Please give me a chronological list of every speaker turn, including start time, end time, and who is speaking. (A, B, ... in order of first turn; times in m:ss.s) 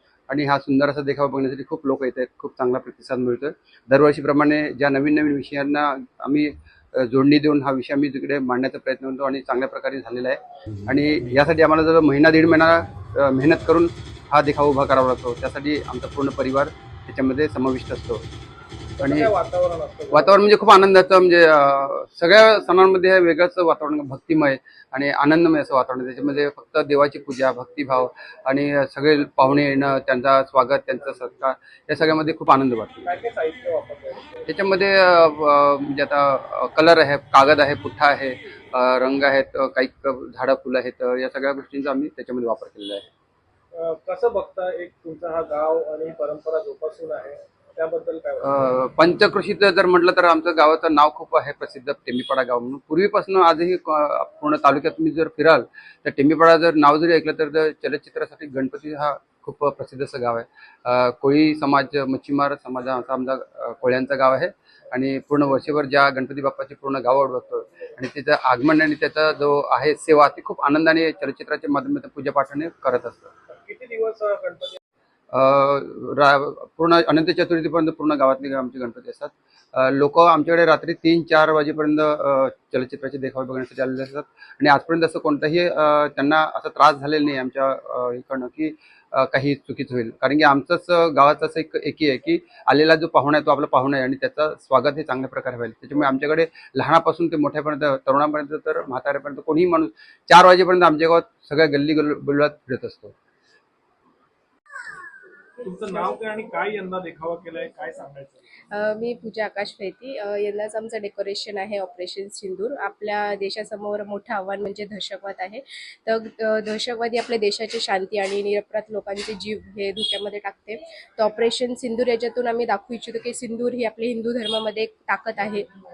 0:00.3-0:18.2 A
0:19.0-0:20.4 B
0:19.0-0:19.3 A
0:20.1-0:33.1 A
0:33.0-0:34.4 B
0:34.5-0:43.0 A
0:43.7-0:48.6 B
0:48.4-1:13.3 A
1:13.5-1:14.8 B
1:15.3-1:43.1 A
1:45.6-1:48.4 B
1:48.7-2:05.7 C